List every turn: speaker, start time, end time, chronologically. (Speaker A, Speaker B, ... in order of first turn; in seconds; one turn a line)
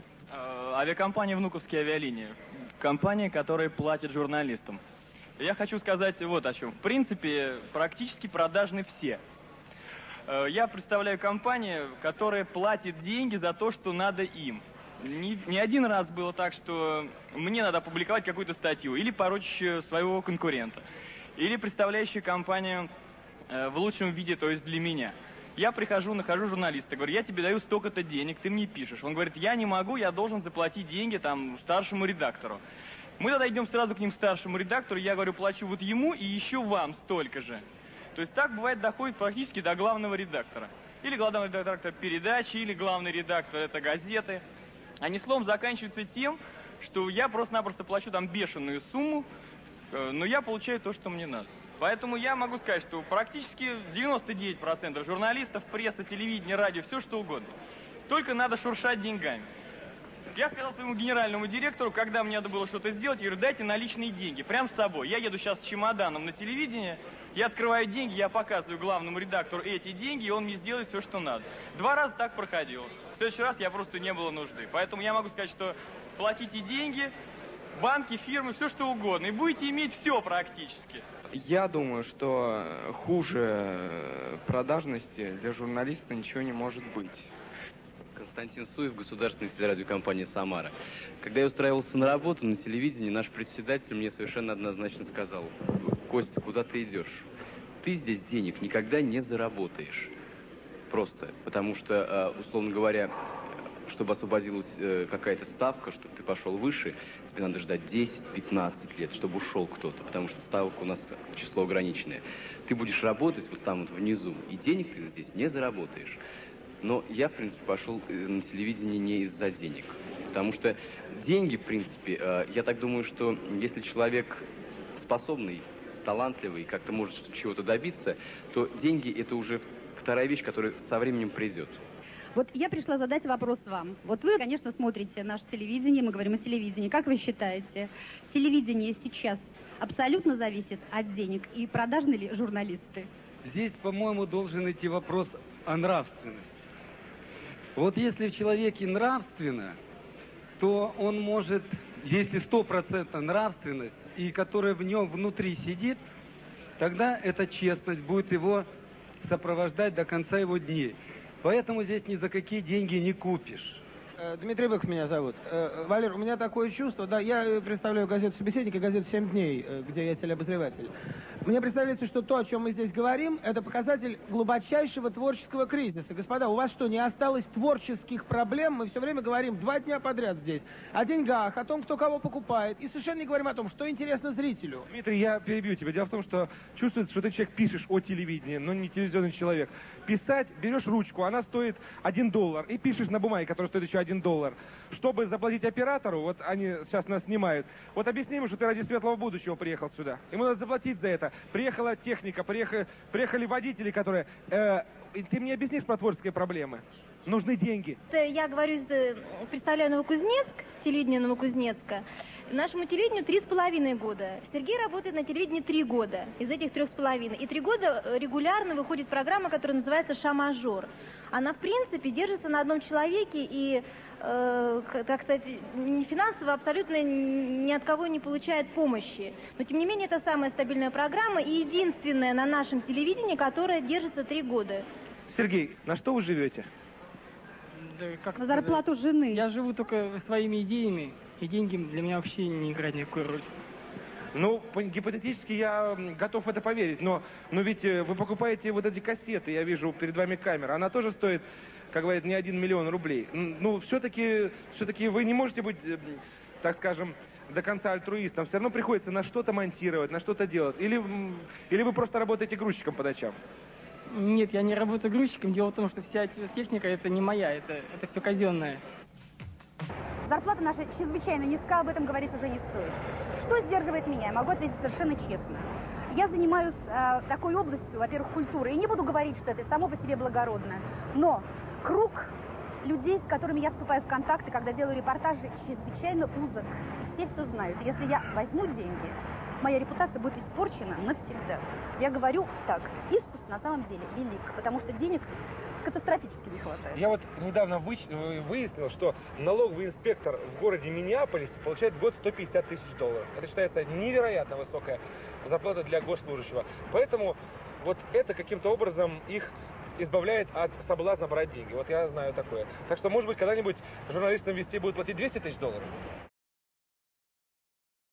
Speaker A: 0.3-4.8
Speaker A: 5.4-9.2
Speaker A: 10.3-20.8
Speaker A: 21.4-22.9
Speaker A: 23.5-32.6
Speaker A: 33.2-37.6
Speaker A: 38.1-44.4
Speaker A: 45.0-49.2
Speaker A: 49.9-57.5
Speaker A: 58.1-59.5
Speaker A: 60.3-77.1
Speaker A: 77.8-81.0
Speaker B: 81.3-87.3
Speaker C: 88.2-97.3
Speaker C: 97.8-100.1
Speaker C: 100.9-103.1
Speaker C: 103.9-116.2
Speaker C: 116.8-124.4
Speaker C: 125.0-131.8
Speaker D: 132.3-143.1
Speaker E: 143.4-146.5
Speaker E: 147.8-149.8
Speaker E: 150.6-156.0
Speaker E: 156.8-158.7
Speaker E: 159.2-163.8
Speaker F: 164.2-170.9
Speaker F: 171.4-184.9
Speaker G: 184.9-208.0
Speaker H: 208.1-234.8
Speaker G: 235.3-236.7
Speaker I: 237.8-238.8
Speaker D: 238.3-239.4
Speaker I: 239.3-243.4
Speaker G: 244.3-263.4
Speaker I: 264.1-268.8
Speaker D: 270.2-295.3
Speaker D: 295.8-297.0
Speaker G: 296.9-315.9